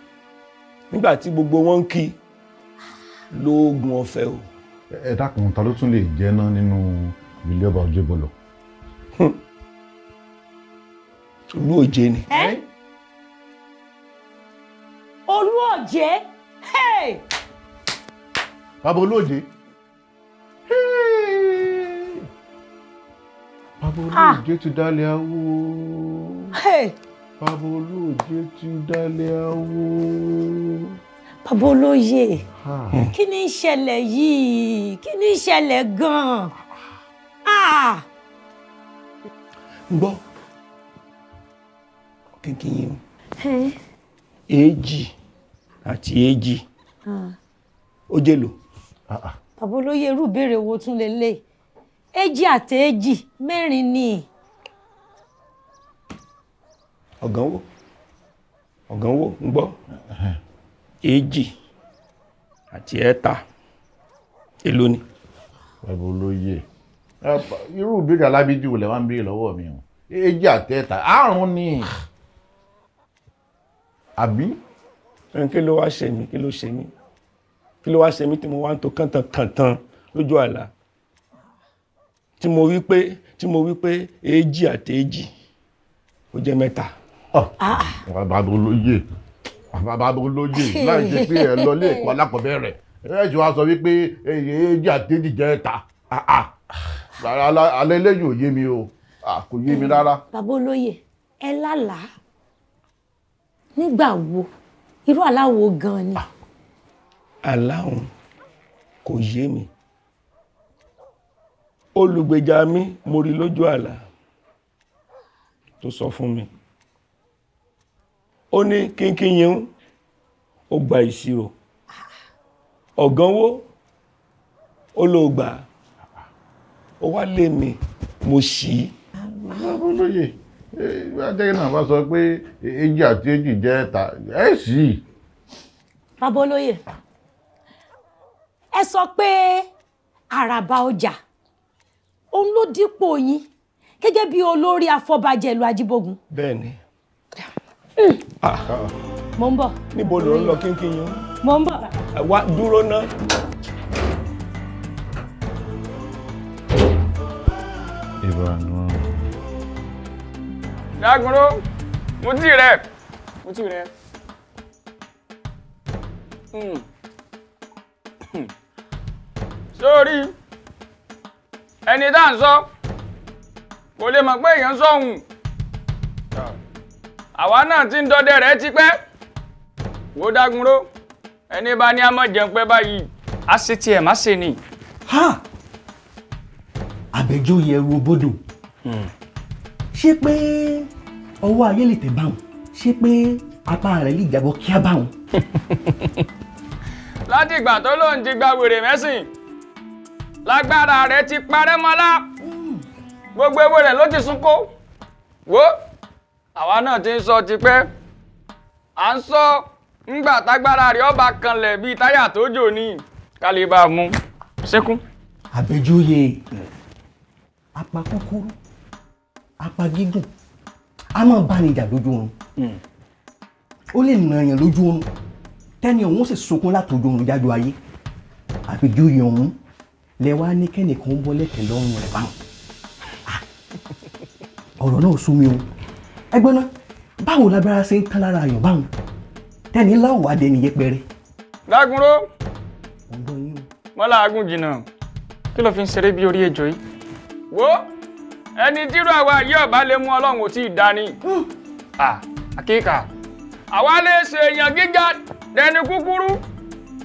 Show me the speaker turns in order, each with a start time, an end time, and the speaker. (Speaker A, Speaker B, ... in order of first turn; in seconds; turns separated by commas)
Speaker A: 0.9-2.1, Speaker A: 3.3-4.4, Speaker B: 4.9-8.3, Speaker A: 11.5-12.3, Speaker C: 12.3-12.6, Speaker C: 15.3-17.2, Speaker B: 18.8-19.4, Speaker B: 20.7-22.2, Speaker B: 23.8-26.5, Speaker C: 24.1-24.4, Speaker C: 26.6-26.9, Speaker B: 27.4-30.9, Speaker C: 31.4-32.4, Speaker B: 32.6-33.0, Speaker C: 33.1-36.5, Speaker C: 37.5-38.0, Speaker A: 39.9-40.2, Speaker A: 42.4-43.0, Speaker C: 43.4-43.7, Speaker A: 44.5-45.1, Speaker A: 45.9-46.6, Speaker C: 47.1-47.3, Speaker A: 48.1-48.5, Speaker B: 49.1-49.3, Speaker C: 49.6-51.4, Speaker C: 52.1-54.2, Speaker A: 57.2-57.6, Speaker A: 58.9-59.8, Speaker B: 60.1-60.4, Speaker A: 61.0-61.5, Speaker A: 62.7-63.4, Speaker A: 64.6-65.0, Speaker B: 65.8-66.6, Speaker B: 67.2-71.9, Speaker B: 74.2-74.6, Speaker A: 75.3-76.9, Speaker A: 77.8-80.7, Speaker A: 82.4-85.3, Speaker A: 86.3-86.9, Speaker C: 87.6-88.0, Speaker B: 88.0-89.0, Speaker B: 89.7-96.5, Speaker C: 90.5-92.1, Speaker B: 97.2-100.2, Speaker C: 99.7-102.1, Speaker C: 103.8-104.5, Speaker C: 105.1-106.2, Speaker A: 107.4-108.1, Speaker A: 109.0-109.7, Speaker A: 112.0-114.0, Speaker A: 115.8-116.5, Speaker A: 118.5-119.7, Speaker A: 120.7-121.5, Speaker A: 123.0-123.6, Speaker A: 125.0-125.6, Speaker A: 127.0-128.9, Speaker B: 129.2-135.0, Speaker C: 136.2-136.8, Speaker C: 138.7-139.7, Speaker C: 140.3-141.2, Speaker C: 142.3-143.4, Speaker C: 144.0-146.2, Speaker A: 146.3-146.8, Speaker A: 148.4-148.7, Speaker C: 149.4-150.6, Speaker A: 149.9-151.2, Speaker C: 151.4-151.9, Speaker A: 152.2-153.1, Speaker B: 158.2-159.0, Speaker D: 161.0-161.6, Speaker D: 162.2-162.8, Speaker D: 163.4-163.9, Speaker D: 166.5-166.8, Speaker D: 169.8-170.3, Speaker D: 171.9-172.6, Speaker D: 174.0-175.2, Speaker D: 177.4-178.9, Speaker D: 180.2-180.8, Speaker D: 181.5-184.6, Speaker E: 185.1-185.4, Speaker E: 187.1-188.4, Speaker E: 189.9-190.9, Speaker E: 191.4-195.1, Speaker D: 197.3-199.2, Speaker D: 200.4-202.2, Speaker E: 202.4-202.8, Speaker D: 203.3-204.7, Speaker D: 205.5-205.7, Speaker D: 206.6-207.9, Speaker D: 209.0-215.0, Speaker E: 215.5-216.4, Speaker E: 217.8-218.5, Speaker E: 219.6-220.3, Speaker E: 221.1-222.3, Speaker E: 223.9-225.1, Speaker E: 225.8-227.8, Speaker E: 228.7-229.6, Speaker E: 230.2-232.3, Speaker E: 234.8-235.6, Speaker E: 236.3-236.7, Speaker E: 237.2-238.9, Speaker E: 239.7-241.0, Speaker D: 241.7-242.2, Speaker E: 243.1-243.7, Speaker D: 244.0-244.8, Speaker D: 245.5-246.8, Speaker D: 247.5-247.8, Speaker D: 248.6-251.1, Speaker D: 252.0-253.1, Speaker D: 253.7-256.4